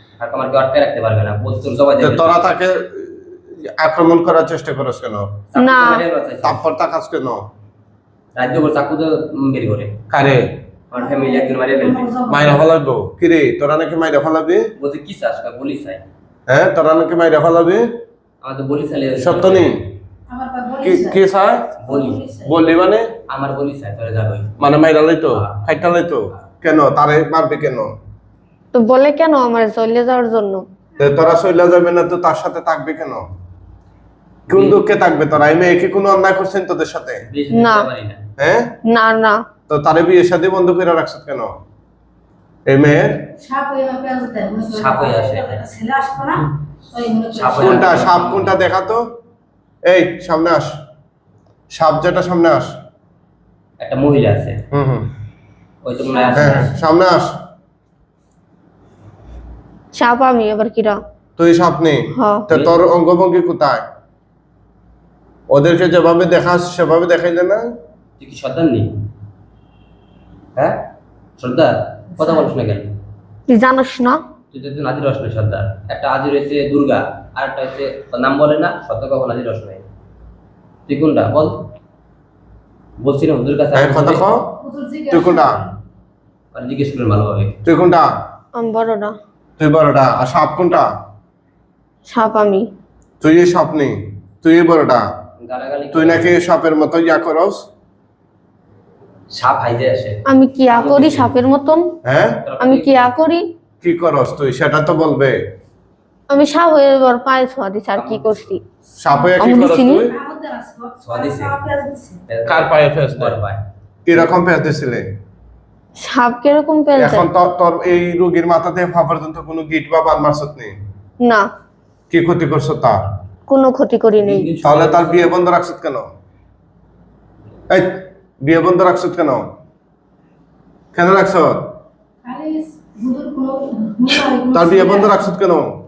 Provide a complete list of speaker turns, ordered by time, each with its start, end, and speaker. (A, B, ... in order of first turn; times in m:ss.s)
0:00.2-0:02.6 A
0:02.0-0:05.4 B
0:05.5-0:06.7 A
0:05.6-0:06.0 C
0:06.4-0:07.5 B
0:08.4-0:10.0 A
0:10.1-0:10.5 B
0:10.9-0:12.2 A
0:10.9-0:12.6 D
0:12.3-0:14.7 B
0:14.8-0:16.0 A
0:16.5-0:17.9 B
0:18.4-0:19.9 A
0:19.2-0:19.8 B
0:20.3-0:21.2 D
0:20.8-0:21.7 B
0:21.8-0:22.2 A
0:21.9-0:22.6 D
0:22.4-0:23.1 B
0:23.3-0:24.7 A
0:24.6-0:27.9 B
0:25.3-0:25.7 A
0:28.7-0:30.6 C
0:31.0-0:33.3 B
0:34.5-0:34.8 A
0:34.5-0:37.2 B
0:37.3-0:38.2 A
0:37.5-0:37.9 C
0:38.4-0:38.7 B
0:38.9-0:39.4 C
0:39.7-0:41.5 B
0:42.7-0:43.1 B
0:43.4-0:48.0 D
0:44.7-0:45.6 A
0:47.3-0:48.7 A
0:47.6-0:49.0 B
0:49.9-0:50.7 B
0:51.7-0:52.7 B
0:53.8-0:54.6 A
0:54.7-0:55.1 B
0:55.8-0:56.7 A
0:56.0-0:56.7 D
0:56.3-0:57.4 B
0:59.9-1:01.0 C
1:01.4-1:03.8 B
1:02.1-1:02.5 C
1:02.5-1:02.8 A
1:05.5-1:07.7 B
1:08.2-1:08.9 A
1:11.4-1:12.9 A
1:13.5-1:14.2 C
1:14.5-1:19.8 A
1:20.9-1:21.6 A
1:23.0-1:24.3 A
1:23.7-1:24.4 B
1:24.6-1:25.7 D
1:25.1-1:25.6 B
1:26.5-1:27.6 A
1:27.6-1:28.1 B
1:28.6-1:29.2 C
1:29.6-1:30.9 B
1:32.1-1:32.7 C
1:33.2-1:35.1 B
1:35.4-1:36.4 A
1:35.9-1:37.6 B
1:39.3-1:41.3 A
1:40.2-1:41.9 C
1:42.0-1:42.4 B
1:42.4-1:43.1 A
1:42.6-1:43.5 C
1:43.8-1:45.4 B
1:46.3-1:48.6 C
1:48.0-1:48.5 A
1:49.0-1:50.1 B
1:49.4-1:50.1 C
1:50.1-1:52.2 D
1:51.0-1:51.6 A
1:52.3-1:53.6 A
1:52.5-1:53.4 B
1:54.1-1:55.1 B
1:56.0-1:57.3 C
1:57.0-2:00.8 B
2:02.1-2:03.0 B
2:03.5-2:04.5 C
2:04.2-2:05.4 A
2:04.6-2:06.1 B
2:07.7-2:09.5 B
2:10.9-2:11.7 B
2:12.2-2:15.2 D
2:14.5-2:15.8 B